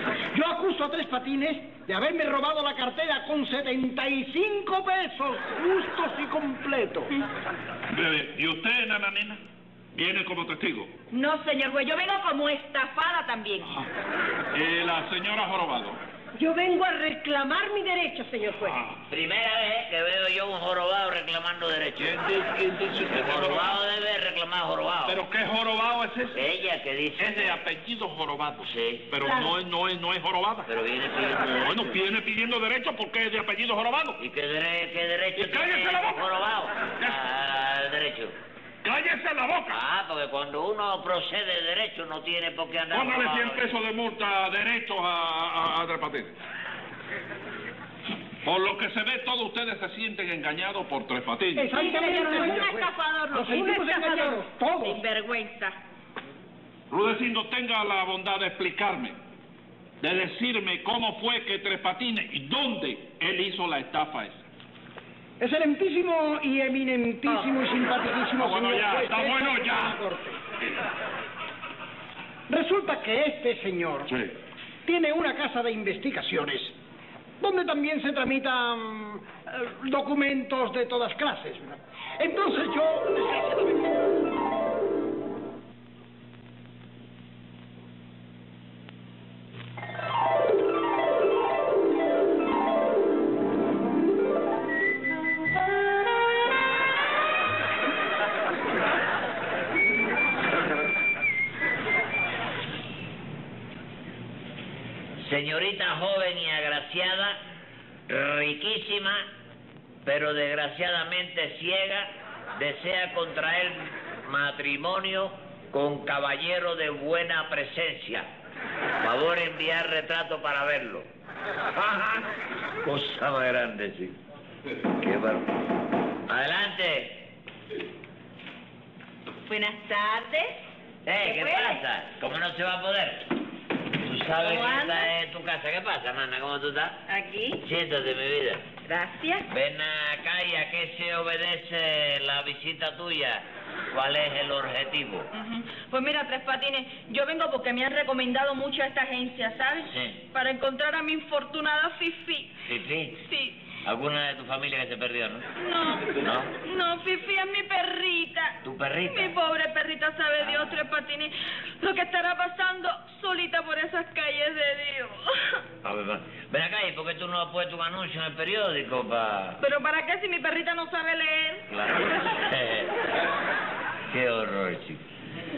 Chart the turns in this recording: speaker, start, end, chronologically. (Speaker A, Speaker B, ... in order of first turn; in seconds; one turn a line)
Speaker A: 0.3-7.1
Speaker B: 7.9-9.4
Speaker B: 9.9-10.9
Speaker C: 11.1-13.7
Speaker B: 13.6-13.9
Speaker B: 14.5-16.0
Speaker D: 16.3-18.8
Speaker B: 18.5-19.0
Speaker E: 19.1-22.2
Speaker B: 22.0-23.8
Speaker E: 23.1-25.2
Speaker B: 25.1-26.4
Speaker E: 26.3-27.6
Speaker B: 27.2-30.7
Speaker E: 28.6-29.1
Speaker E: 30.7-31.7
Speaker B: 31.6-34.2
Speaker E: 34.2-38.3
Speaker B: 35.4-36.2
Speaker B: 38.8-39.8
Speaker E: 39.7-43.7
Speaker B: 42.9-46.3
Speaker B: 48.4-51.7
Speaker A: 51.5-55.0
Speaker C: 51.7-55.8
Speaker B: 56.9-59.1
Speaker B: 60.0-64.4
Speaker A: 65.4-70.4
Speaker B: 68.4-70.0
Speaker A: 72.5-74.1
Speaker B: 74.1-74.3
Speaker A: 74.8-76.8
Speaker A: 77.4-83.9
Speaker E: 105.2-107.4
Speaker E: 108.1-109.2
Speaker E: 110.0-118.3
Speaker E: 119.0-121.1
Speaker E: 121.7-122.3
Speaker E: 122.8-124.2
Speaker E: 125.0-125.5
Speaker E: 126.3-127.3
Speaker C: 129.4-130.6
Speaker E: 131.1-133.3
Speaker C: 131.2-131.8
Speaker E: 134.0-137.0
Speaker C: 134.4-135.1
Speaker C: 137.1-137.6
Speaker E: 137.6-138.6
Speaker C: 138.8-139.5
Speaker E: 139.5-145.3
Speaker C: 145.3-152.5
Speaker E: 149.8-150.2
Speaker E: 152.6-153.2
Speaker C: 153.2-153.6
Speaker E: 153.8-155.5
Speaker C: 155.6-165.6
Speaker E: 156.1-156.5
Speaker E: 158.6-159.3
Speaker E: 160.4-160.8
Speaker E: 165.8-169.6
Speaker C: 169.6-171.6
Speaker E: 171.7-172.9
Speaker E: 174.1-175.0